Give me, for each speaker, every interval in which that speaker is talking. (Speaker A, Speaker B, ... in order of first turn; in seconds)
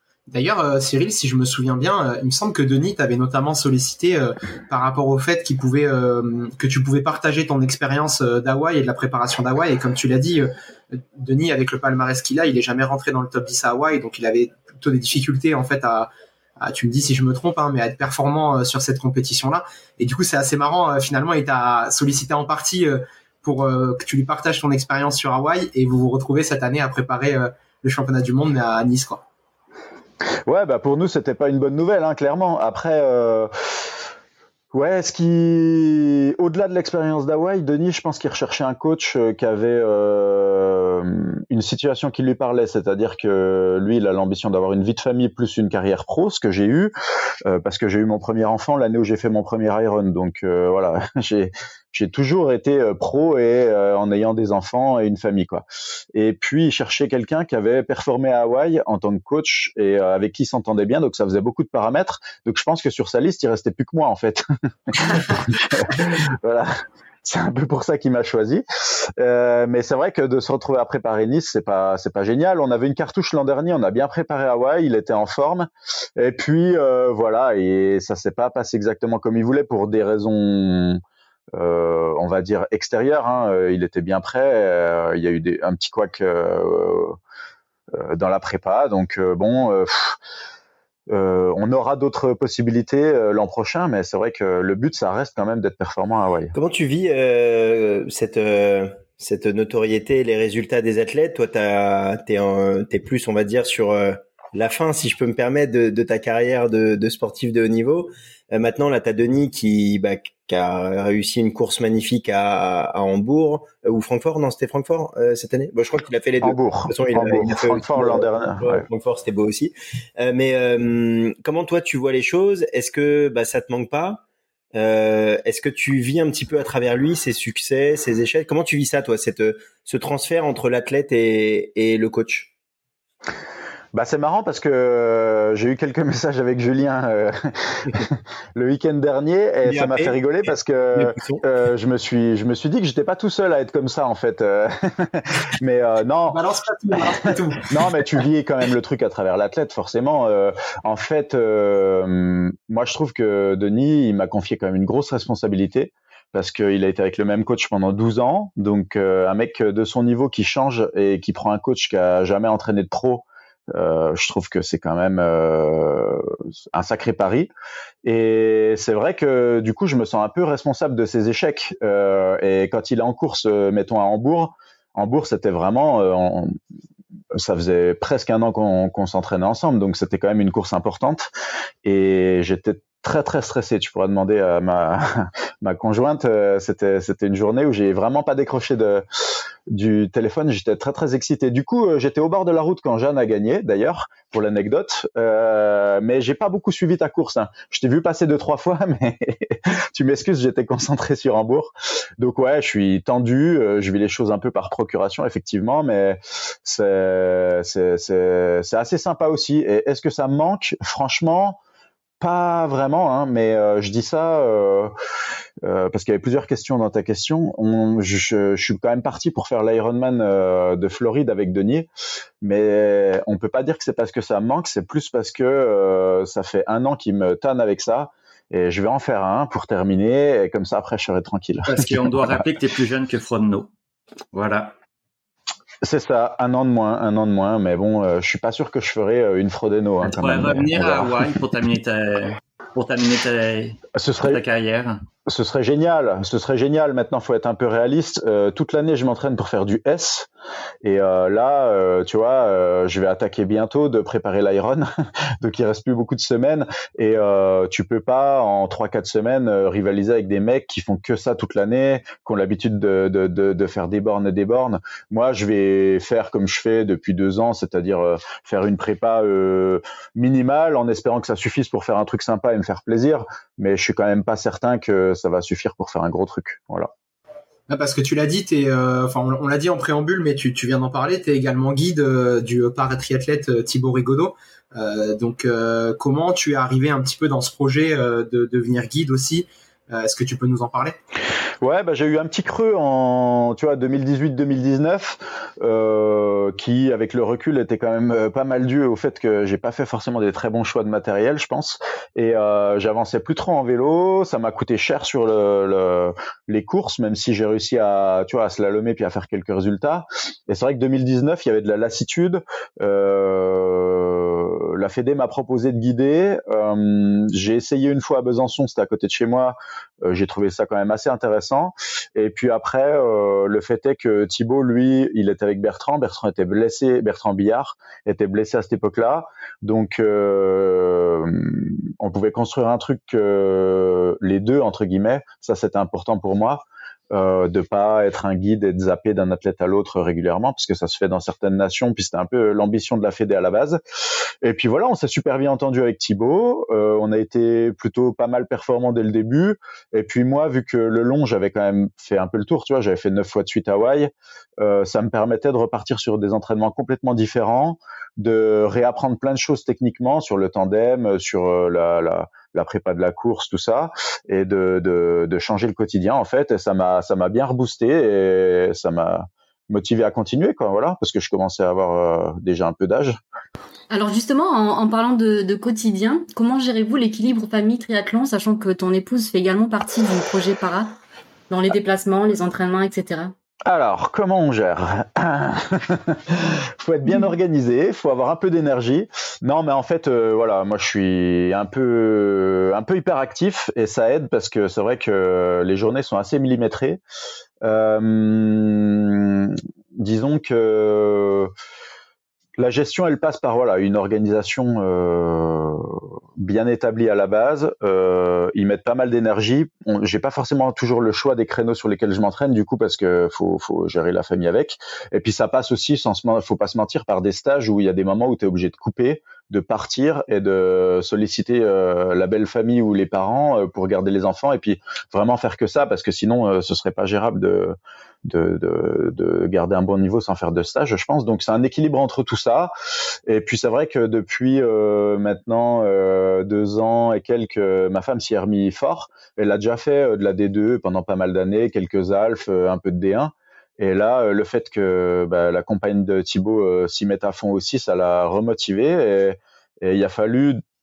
Speaker A: 0.3-29.2, 146.3-148.0, 277.7-291.0
Speaker B: 30.4-33.5, 34.7-46.9, 47.5-66.7, 67.2-81.0, 81.5-87.2, 88.0-90.2, 91.1-96.5, 116.4-118.8, 133.9-146.4, 147.7-167.5, 168.0-176.6, 177.3-181.3, 181.8-189.1, 189.7-211.6, 212.2-214.9, 215.6-221.9, 222.4-232.3, 235.8-241.3, 243.9-244.4, 245.3-250.3, 250.8-254.9, 255.4-276.9, 291.6-343.8, 344.4-373.2, 383.7-397.0, 397.6-401.5, 402.6-432.7, 433.3-450.6
Speaker C: 96.5-124.2, 124.7-132.5, 139.6-140.2, 140.9-141.4
Speaker D: 231.7-233.7, 234.3-234.7, 240.0-245.0
Speaker E: 373.9-380.9, 381.5-383.3